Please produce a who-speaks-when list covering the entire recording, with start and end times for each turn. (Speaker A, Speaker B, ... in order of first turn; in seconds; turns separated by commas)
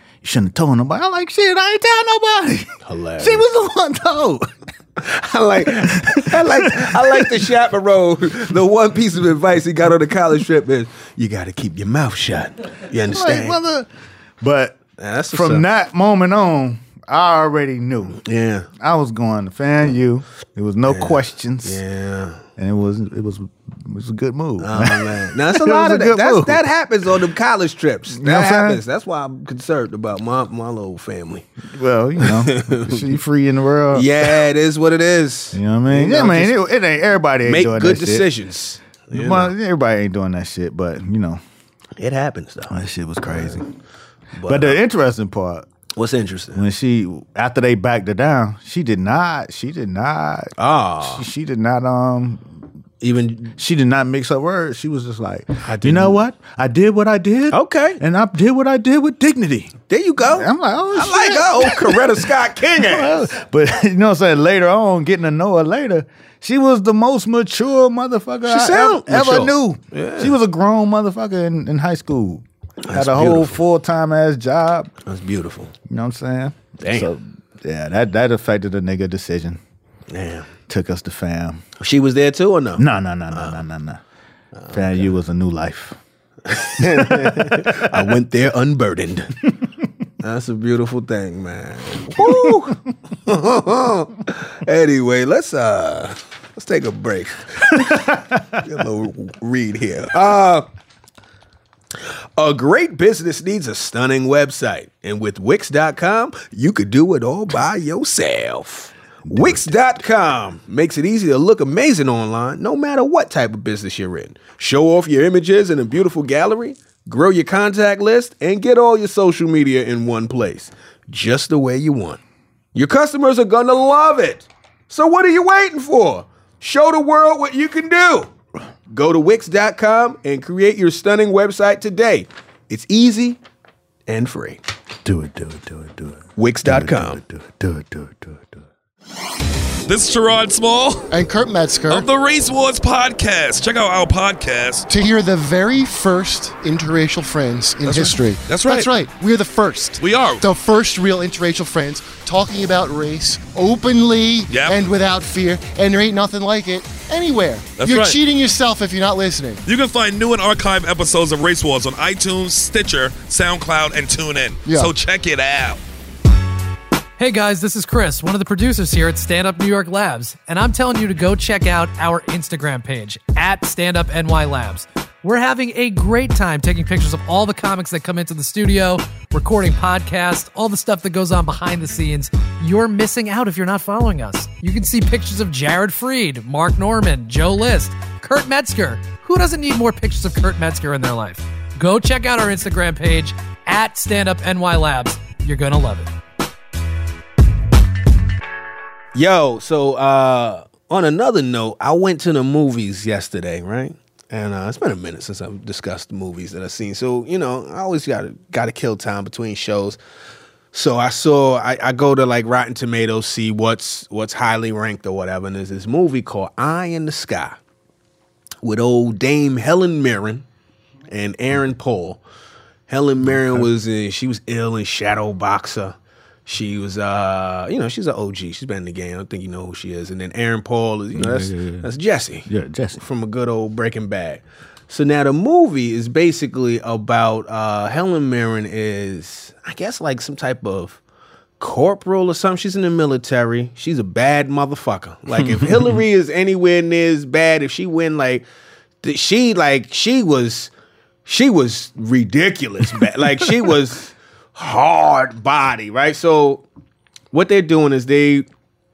Speaker A: 0.2-4.5, Speaker B: 2.8-3.5, Speaker B: 5.0-13.6, Speaker A: 5.7-7.4, Speaker A: 13.1-13.9, Speaker A: 14.4-14.8, Speaker B: 15.0-15.7, Speaker A: 15.3-18.2, Speaker B: 18.2-18.7, Speaker A: 18.7-21.8, Speaker B: 20.9-22.4, Speaker A: 22.6-26.6, Speaker B: 24.6-31.5, Speaker A: 28.1-28.8, Speaker A: 31.7-34.4, Speaker B: 32.2-33.2, Speaker B: 33.9-36.6, Speaker A: 35.5-38.3, Speaker B: 37.5-39.5, Speaker A: 39.1-41.4, Speaker B: 42.0-43.6, Speaker A: 42.7-43.7, Speaker B: 44.4-44.8, Speaker A: 44.5-45.7, Speaker B: 46.0-46.6, Speaker A: 46.5-52.5, Speaker B: 50.6-51.2, Speaker B: 53.0-53.5, Speaker A: 53.6-59.7, Speaker B: 55.6-56.2, Speaker B: 57.5-58.0, Speaker B: 59.9-63.3, Speaker A: 60.3-74.9, Speaker B: 68.5-70.3, Speaker B: 72.8-73.6, Speaker B: 75.0-75.7, Speaker A: 75.9-79.6, Speaker B: 76.8-77.1, Speaker B: 80.1-80.5, Speaker A: 80.7-81.6, Speaker B: 81.8-83.6, Speaker A: 82.8-84.0, Speaker B: 84.6-85.1, Speaker A: 84.7-86.0, Speaker B: 86.5-89.4, Speaker A: 86.8-87.9, Speaker B: 90.2-92.7, Speaker A: 92.2-92.8, Speaker B: 93.3-100.7, Speaker A: 97.8-98.2, Speaker B: 102.4-122.2, Speaker A: 109.3-109.8, Speaker B: 122.8-128.3, Speaker B: 128.9-133.4, Speaker B: 134.1-134.6, Speaker A: 135.1-138.6, Speaker B: 136.4-137.2, Speaker C: 139.9-141.1, Speaker D: 141.1-142.1, Speaker C: 141.9-144.9, Speaker D: 144.9-159.6, Speaker C: 147.8-148.9, Speaker C: 150.0-150.4, Speaker C: 154.5-154.8, Speaker C: 157.8-158.2, Speaker C: 159.7-165.8, Speaker D: 164.7-164.9, Speaker E: 167.2-196.1, Speaker B: 199.2-210.0, Speaker B: 210.7-217.6, Speaker B: 218.6-220.4, Speaker B: 221.1-222.2, Speaker B: 222.9-241.0, Speaker A: 223.3-223.7, Speaker A: 231.2-231.9, Speaker A: 232.5-233.0, Speaker B: 241.6-248.5, Speaker A: 245.4-245.9, Speaker B: 249.0-250.7, Speaker B: 251.3-256.6, Speaker B: 257.3-258.5